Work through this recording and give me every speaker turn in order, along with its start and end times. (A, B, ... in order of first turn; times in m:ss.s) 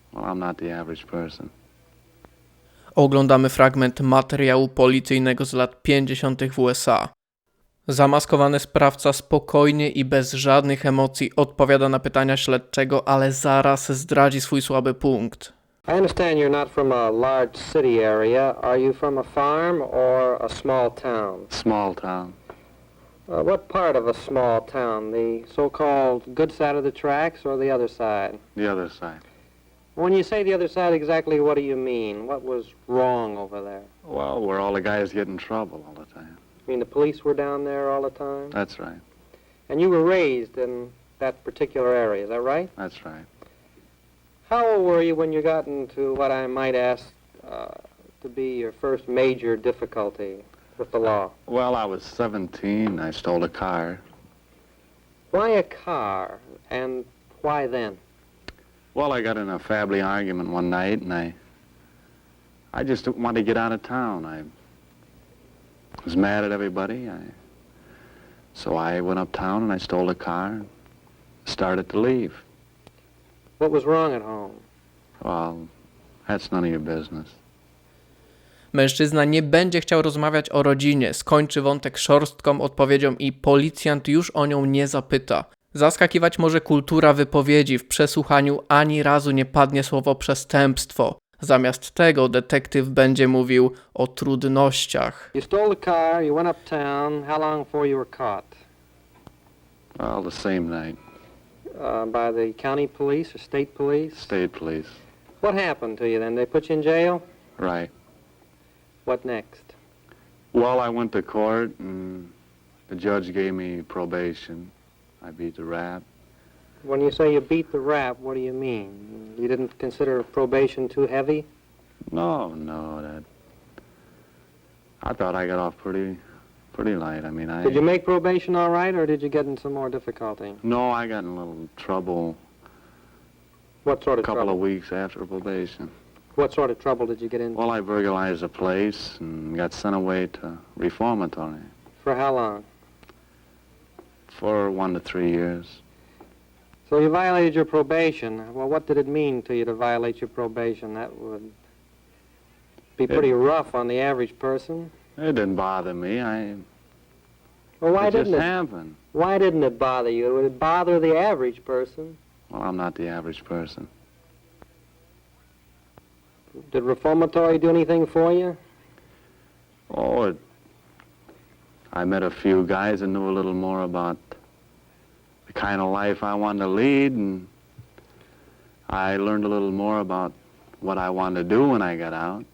0:00.1-0:01.5 A
0:03.0-0:07.1 B
0:07.9-0:15.5 B
0:15.9-0:21.5 C
0:21.5-0:22.4 A
0:23.3-0:28.4 C
0:28.6-0:29.2 A
0:30.0-0:33.9 C
0:34.0-0:36.4 A
0:36.7-0:38.6 C
0:38.5-0:39.0 A
0:39.7-0:42.7 C
0:42.8-0:43.3 A
0:44.5-0:51.3 C
0:51.5-0:54.0 A
0:55.3-0:58.0 C
0:59.0-1:01.4 A
1:02.7-1:04.5 A
1:06.0-1:07.3 A
1:08.6-1:10.7 A
1:11.5-1:12.4 A
1:13.6-1:14.6 C
1:15.2-1:15.7 A
1:16.3-1:17.4 A
1:18.7-1:35.3 B
1:35.3-1:38.6 C
1:40.0-1:41.0 A
1:41.8-1:44.3 C
1:44.2-1:45.0 A
1:45.4-1:47.2 C
1:47.6-1:47.9 A
1:49.1-1:49.8 C
1:50.5-1:52.3 A
1:52.9-1:54.7 A
1:55.2-1:56.0 A
1:56.8-2:01.5 C
2:02.1-2:03.2 A
2:05.0-2:06.2 A
2:06.7-2:07.8 A
2:07.6-2:10.6 C
2:10.6-2:12.4 A
2:13.8-2:14.6 C
2:14.2-2:15.9 A
2:16.4-2:17.6 C
2:17.5-2:21.7 A
2:22.0-2:22.7 C
2:24.3-2:25.8 A
2:26.9-2:31.5 C
2:33.0-2:34.9 C
2:35.2-2:36.6 A
2:37.8-2:38.5 C
2:38.0-2:39.0 A
2:39.1-2:42.2 C
2:42.5-2:43.9 A
2:46.7-2:48.6 C
2:49.9-2:50.4 A
2:51.9-2:54.4 A
2:55.5-2:57.5 A
2:58.9-3:02.5 A